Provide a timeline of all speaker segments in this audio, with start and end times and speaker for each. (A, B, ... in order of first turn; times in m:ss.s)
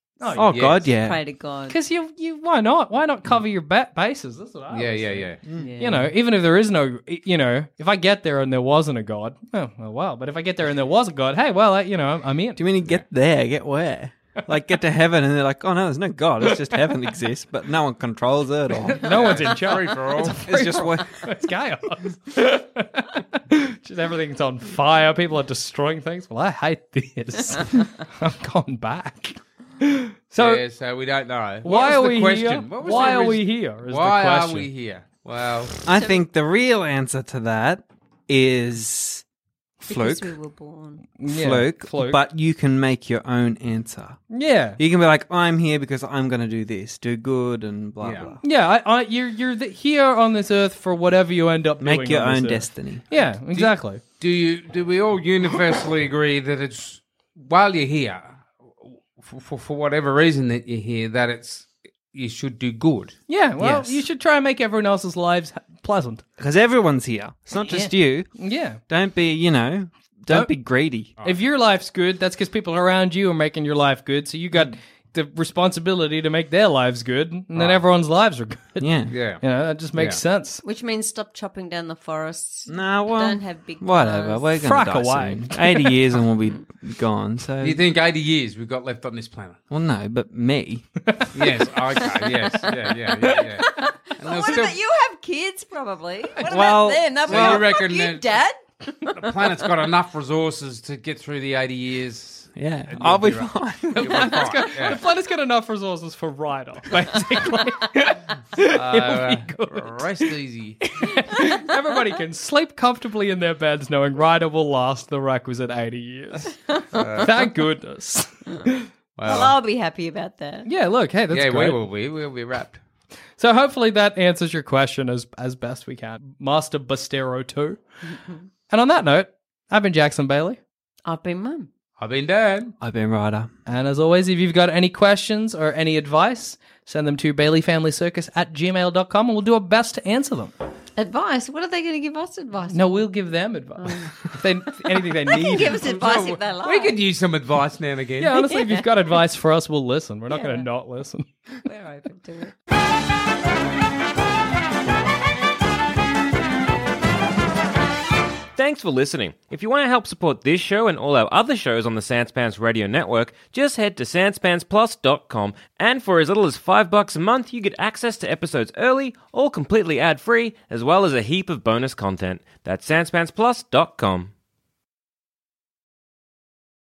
0:00.2-0:00.6 A
0:00.4-0:01.2 B
0:00.5-0:00.9 C
0:00.8-0:01.8 D
0:01.7-0:12.6 A
0:04.7-0:05.4 C
0:05.6-0:06.1 D
0:12.6-0:19.5 B
0:18.9-0:30.6 A
0:19.0-0:20.5 C
0:20.2-0:21.3 B
0:30.4-0:35.7 C
0:31.6-0:34.7 A
0:35.9-0:39.2 B
0:35.9-0:36.2 D
0:39.8-0:40.3 B
0:39.9-0:41.1 D
0:41.2-0:42.2 A
0:41.3-0:44.2 B
0:44.3-0:44.8 A
0:44.8-0:48.4 B
0:48.0-0:48.4 C
0:48.4-0:54.0 A
0:51.8-0:53.0 B
0:53.5-1:03.2 C
1:03.3-1:06.2 A
1:03.6-1:04.0 B
1:06.4-1:08.3 B
1:07.6-1:08.8 A
1:08.9-1:11.1 B
1:11.2-1:20.6 A
1:17.6-1:17.8 C
1:18.8-1:19.1 B
1:19.1-1:19.4 C
1:20.0-1:20.2 C
1:20.6-1:24.5 D
1:22.7-1:27.8 B
1:24.6-1:26.0 A
1:27.6-1:29.6 C
1:29.7-1:30.9 B
1:31.1-1:31.4 A
1:31.3-1:34.8 C
1:32.2-1:39.5 D
1:36.4-1:37.7 B
1:37.2-1:38.4 C
1:39.1-1:45.0 C
1:42.6-1:44.3 B
1:43.8-1:50.3 A
1:48.7-1:50.9 C
1:51.0-1:56.6 A
1:56.8-1:57.0 D
1:57.0-1:57.4 C
1:57.2-1:58.9 A
1:59.2-1:59.6 C
1:59.2-2:00.7 D
2:00.6-2:01.8 A
2:01.3-2:02.8 C
2:03.4-2:07.8 A
2:08.1-2:08.4 D
2:08.7-2:10.6 A
2:11.1-2:11.7 D
2:12.0-2:12.7 C
2:12.8-2:13.5 B
2:13.7-2:20.5 A
2:21.0-2:23.0 D
2:22.7-2:26.4 A
2:23.8-2:24.3 D
2:25.3-2:27.0 D
2:25.8-2:28.4 C
2:28.2-2:31.3 A
2:28.5-2:28.9 D
2:30.3-2:30.7 D
2:31.7-2:32.6 D
2:38.6-2:54.3 E